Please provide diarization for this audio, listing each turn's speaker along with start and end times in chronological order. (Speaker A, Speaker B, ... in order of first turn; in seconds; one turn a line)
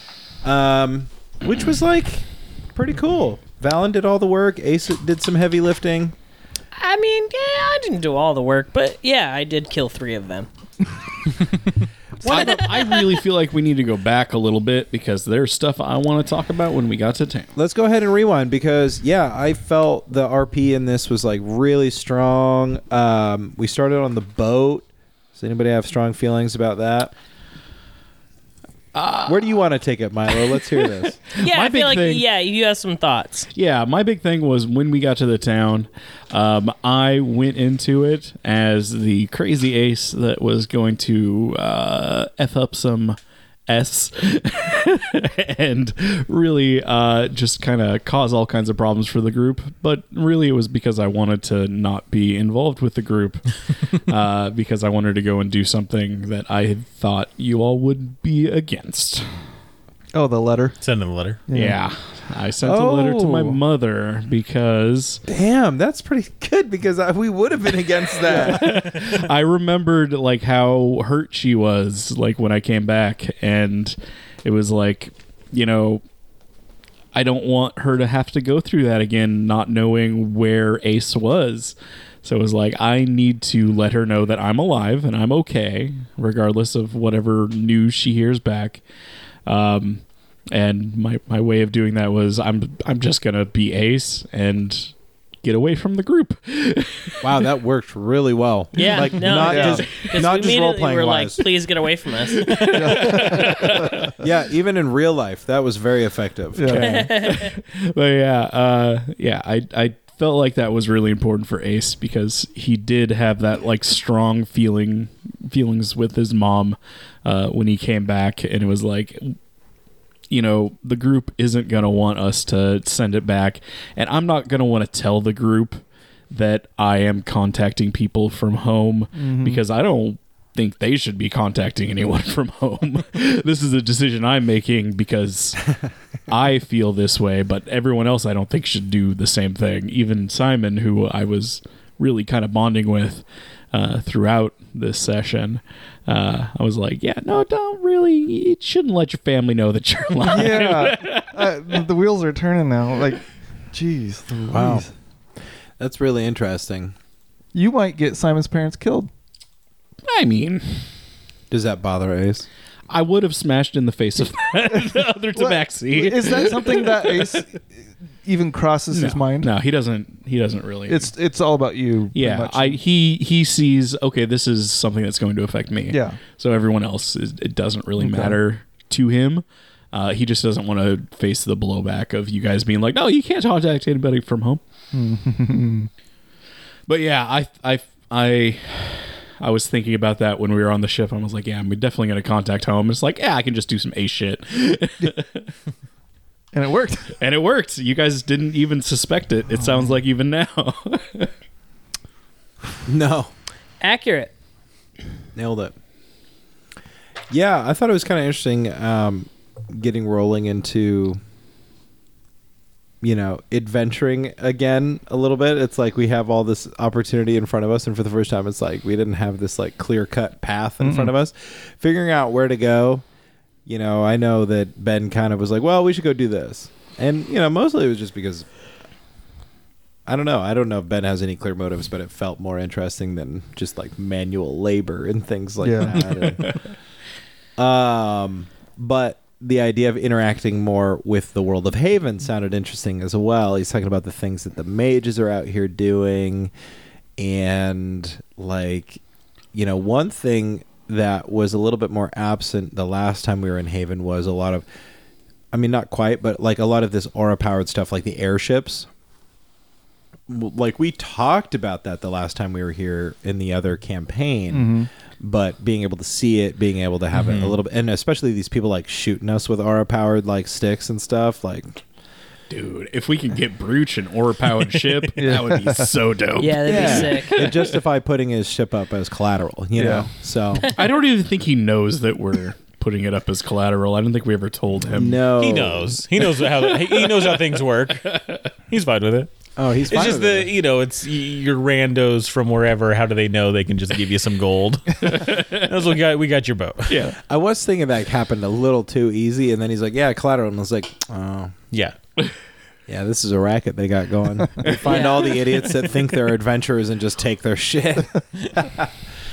Speaker A: 0.4-6.2
Speaker B: 6.7-10.5
Speaker A: 12.2-13.0
Speaker C: 12.2-17.5
Speaker B: 12.3-12.7
Speaker A: 17.6-27.1
Speaker C: 28.9-29.6
Speaker A: 29.3-31.2
Speaker C: 30.3-32.2
Speaker B: 31.4-33.5
Speaker C: 33.5-59.4
Speaker D: 60.1-60.8
Speaker E: 60.8-61.4
Speaker D: 61.5-61.8
Speaker C: 61.5-65.2
Speaker A: 62.6-63.6
Speaker A: 65.3-68.8
Speaker D: 67.9-68.7
Speaker C: 68.3-76.0
Speaker C: 77.1-88.8
Speaker C: 89.5-97.5
Speaker A: 97.2-101.4
Speaker B: 98.7-103.1
Speaker D: 99.4-99.9
Speaker C: 99.9-100.1
Speaker C: 102.3-104.2
Speaker D: 102.7-104.2
Speaker A: 104.2-107.0
Speaker D: 106.6-107.0
Speaker C: 106.7-119.4
Speaker B: 106.7-107.6
Speaker C: 120.3-135.7
Speaker D: 129.2-129.6
Speaker C: 136.3-151.6
Speaker D: 150.2-154.9
Speaker A: 154.5-154.9
Speaker A: 155.8-156.9
Speaker D: 157.5-159.1
Speaker C: 160.1-160.9
Speaker A: 161.5-162.5
Speaker C: 162.9-167.5
Speaker D: 164.9-167.6
Speaker D: 168.2-169.5
Speaker C: 168.9-171.1
Speaker D: 170.9-172.8
Speaker C: 172.1-184.6
Speaker D: 175.9-176.2
Speaker D: 178.0-178.4
Speaker D: 184.9-185.9
Speaker C: 186.9-195.5
Speaker D: 196.5-197.2
Speaker C: 197.2-201.3
Speaker A: 202.9-203.3
Speaker B: 203.8-204.3
Speaker A: 205.3-205.7
Speaker A: 207.3-211.2
Speaker A: 213.0-223.0
Speaker D: 220.8-221.1
Speaker A: 223.7-228.5
Speaker A: 230.1-236.6
Speaker D: 235.6-236.4
Speaker C: 236.1-236.6
Speaker A: 237.6-246.5
Speaker A: 247.2-249.0
Speaker A: 249.5-254.7
Speaker A: 255.5-258.9
Speaker A: 260.3-271.8
Speaker D: 264.5-264.9
Speaker E: 267.1-267.6
Speaker C: 272.5-277.8
Speaker D: 275.2-275.9
Speaker B: 276.4-277.5
Speaker A: 276.6-280.7
Speaker D: 279.8-280.1
Speaker C: 280.6-285.3
Speaker A: 284.9-286.0
Speaker E: 285.4-288.1
Speaker C: 286.4-287.5
Speaker C: 288.0-288.5
Speaker E: 288.7-289.3
Speaker A: 289.6-290.5
Speaker E: 289.9-297.1
Speaker C: 295.0-295.7
Speaker C: 296.9-297.2
Speaker A: 297.1-301.6
Speaker E: 301.7-302.0
Speaker A: 302.9-308.9
Speaker C: 304.6-305.5
Speaker B: 304.8-305.5